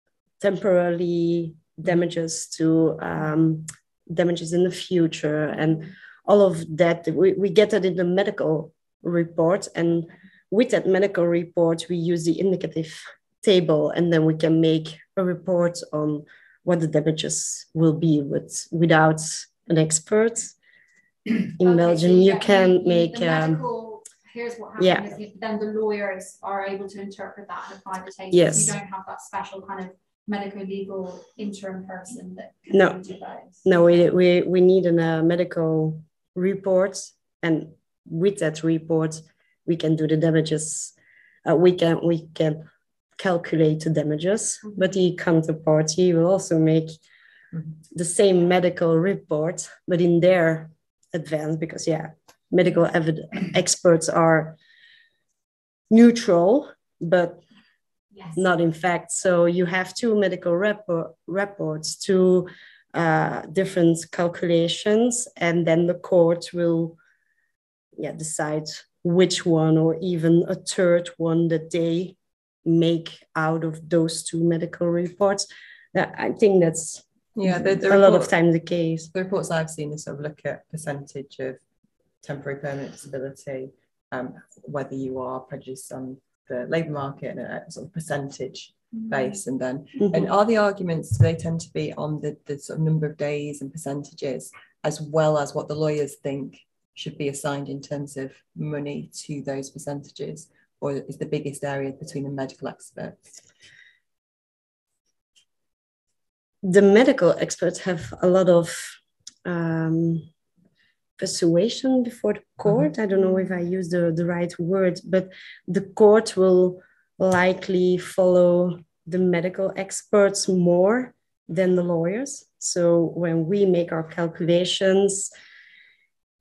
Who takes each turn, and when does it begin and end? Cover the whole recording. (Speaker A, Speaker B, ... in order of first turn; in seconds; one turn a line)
Speaker A: 0.4-20.6
Speaker A: 21.3-23.6
Speaker B: 21.6-34.0
Speaker A: 24.8-25.1
Speaker A: 28.3-28.8
Speaker A: 32.7-33.0
Speaker A: 33.6-40.9
Speaker A: 41.5-42.6
Speaker A: 43.2-47.0
Speaker A: 47.9-54.6
Speaker A: 55.9-57.4
Speaker B: 58.1-58.4
Speaker A: 58.4-67.0
Speaker A: 68.0-77.1
Speaker C: 77.3-78.3
Speaker A: 77.7-79.1
Speaker C: 79.1-81.6
Speaker C: 82.2-103.2
Speaker A: 90.0-90.3
Speaker A: 106.6-110.3
Speaker A: 111.2-125.3